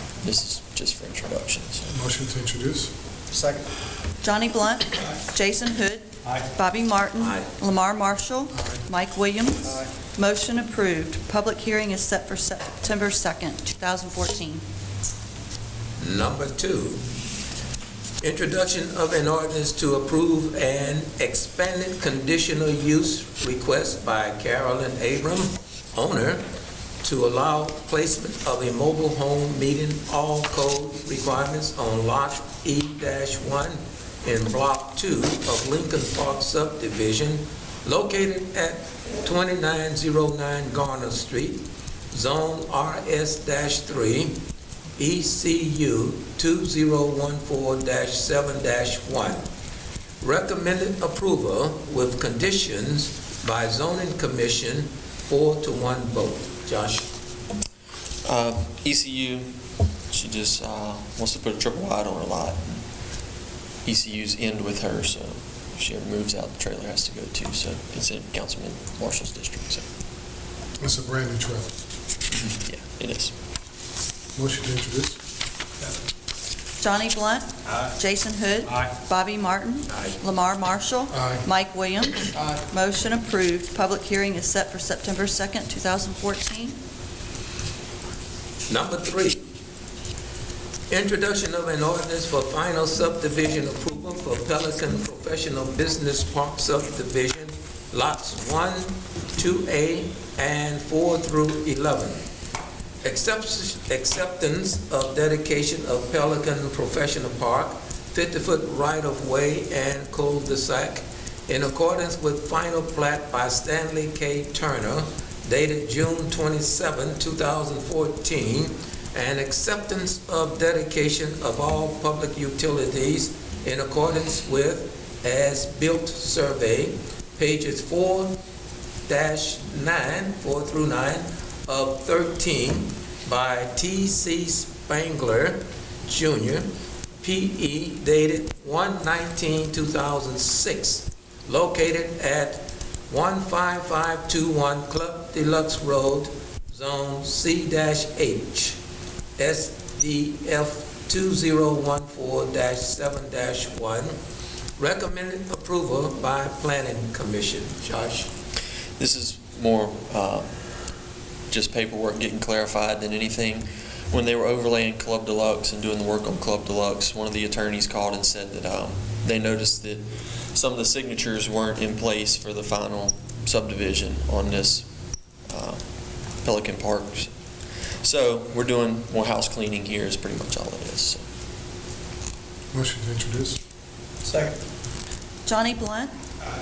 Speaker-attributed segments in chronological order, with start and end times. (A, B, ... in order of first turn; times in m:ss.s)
0:00.2-0:01.9 A
0:01.9-0:03.6 B
0:04.2-0:14.6 C
0:07.2-0:07.5 D
0:16.0-0:17.0 D
0:18.2-0:26.4 D
0:27.0-0:44.4 D
0:45.0-0:49.4 D
0:50.2-0:57.1 D
0:58.2-0:59.5 A
1:00.1-1:02.8 A
1:03.8-1:09.8 A
1:10.8-1:11.7 B
1:12.3-1:13.3 A
1:14.4-1:15.2 B
1:16.8-1:26.8 C
1:19.9-1:20.2 D
1:21.1-1:21.4 B
1:28.7-1:29.4 D
1:30.9-1:42.2 D
1:43.0-2:08.4 D
2:09.1-2:28.8 D
2:29.4-2:34.2 D
2:34.8-2:38.3 D
2:39.0-2:40.5 A
2:41.5-2:54.9 A
2:55.5-2:55.8 A
2:56.4-2:57.3 A
2:58.0-3:01.2 A
3:02.7-3:03.6 B
3:04.3-3:04.5 D
3:05.4-3:06.1 C